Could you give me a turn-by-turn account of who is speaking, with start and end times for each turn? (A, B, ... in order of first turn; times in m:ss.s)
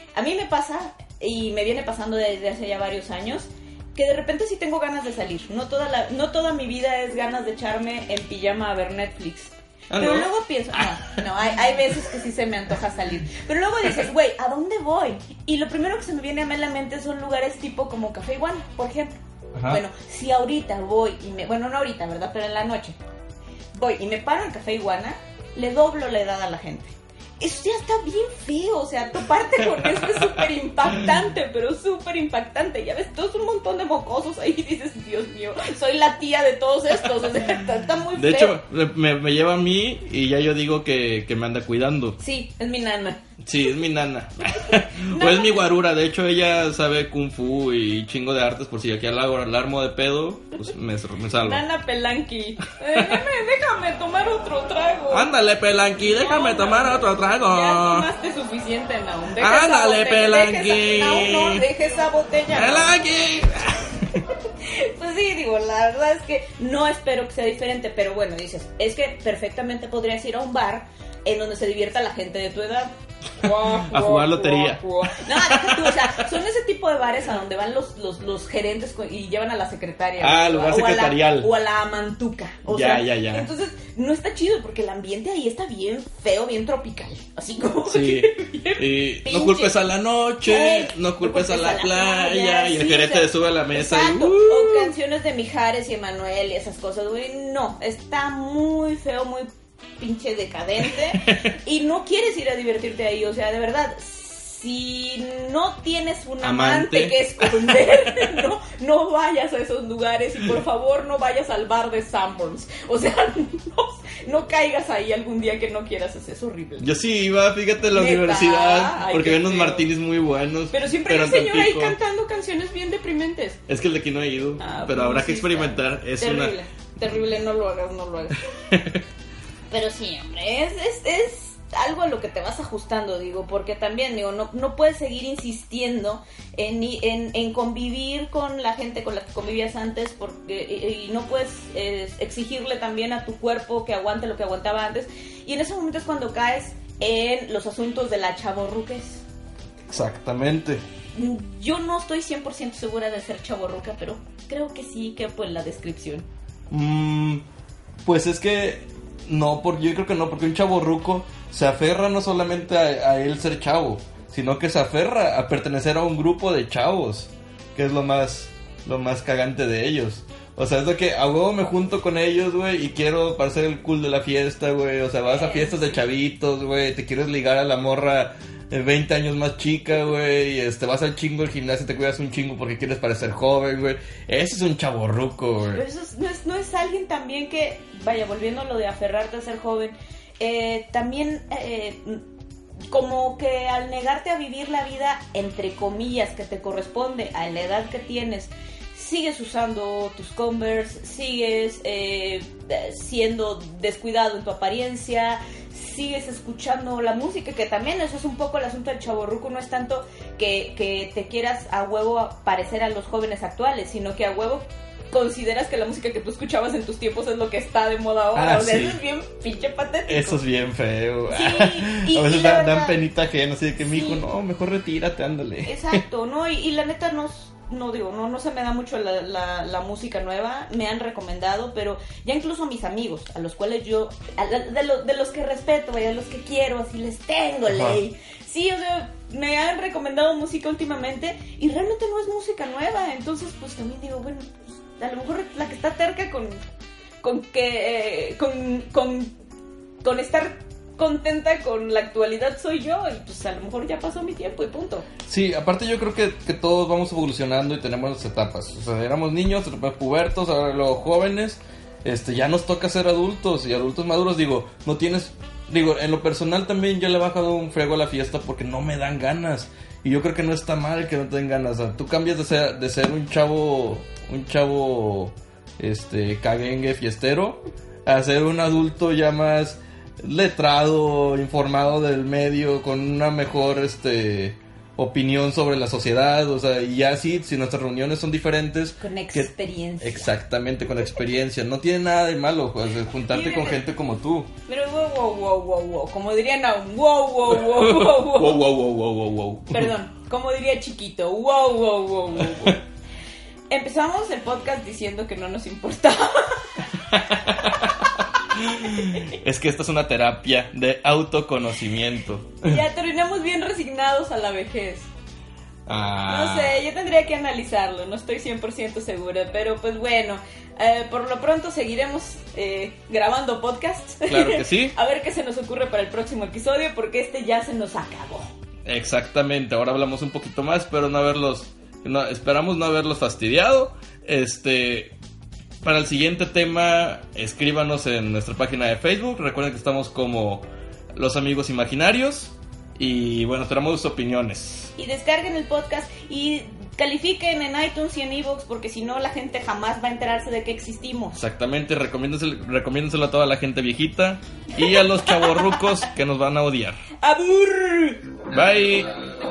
0:00.2-0:19.2 A
0:09.9-0:10.3 B
0:19.6-0:19.8 B
0:19.7-0:23.0 A
0:23.8-0:38.6 A
0:29.8-0:30.2 B
0:38.2-0:42.2 B
0:42.2-0:43.2 A
0:43.4-0:51.6 B
0:45.0-0:45.6 A
0:51.4-0:55.3 A
0:52.9-0:53.2 B
0:55.1-0:58.1 B
0:56.0-1:02.9 A
0:59.4-1:01.7 B
1:02.5-1:04.2 B
1:04.6-1:29.8 A
1:13.4-1:16.2 B
1:20.2-1:21.5 B
1:22.7-1:23.5 B
1:27.9-1:34.9 B
1:30.4-1:56.9 A
1:40.9-1:41.5 B
1:46.4-1:48.4 B
1:56.8-2:02.0 B
1:57.9-1:59.9 A
2:00.7-2:03.6 A
2:03.7-2:06.6 B
2:04.6-2:08.4 A
2:08.7-2:09.0 B
2:09.7-2:29.2 A
2:29.9-2:30.8 B
2:31.2-2:36.3 A
2:36.7-2:37.4 B
2:38.0-3:05.8 B
2:55.3-2:56.0 A
3:05.7-3:12.2 A
3:12.9-3:40.4 A
3:38.4-3:39.0 B
3:40.1-3:46.0 B
3:41.3-3:43.0 A
3:43.8-3:44.2 A
3:45.6-4:06.6 A
3:57.7-3:58.0 B
4:07.2-4:09.4 A
4:10.0-4:15.1 A
4:15.3-4:54.5 B
4:49.0-4:50.3 A
4:53.3-4:53.8 A
4:54.7-4:58.6 A
4:57.5-4:59.9 B
4:59.7-5:02.8 A
5:02.4-5:02.8 B
5:03.7-5:06.9 A
5:07.1-5:12.8 B
5:09.0-5:09.4 A
5:12.6-5:15.1 A
5:15.9-5:16.8 B
5:16.3-5:28.5 A
5:24.3-5:25.0 B
5:28.9-5:35.2 B
5:35.8-5:44.9 B
5:45.0-5:51.4 A
5:51.4-5:57.0 B
5:54.8-5:55.8 A
5:57.2-5:58.2 A
5:58.5-5:59.1 B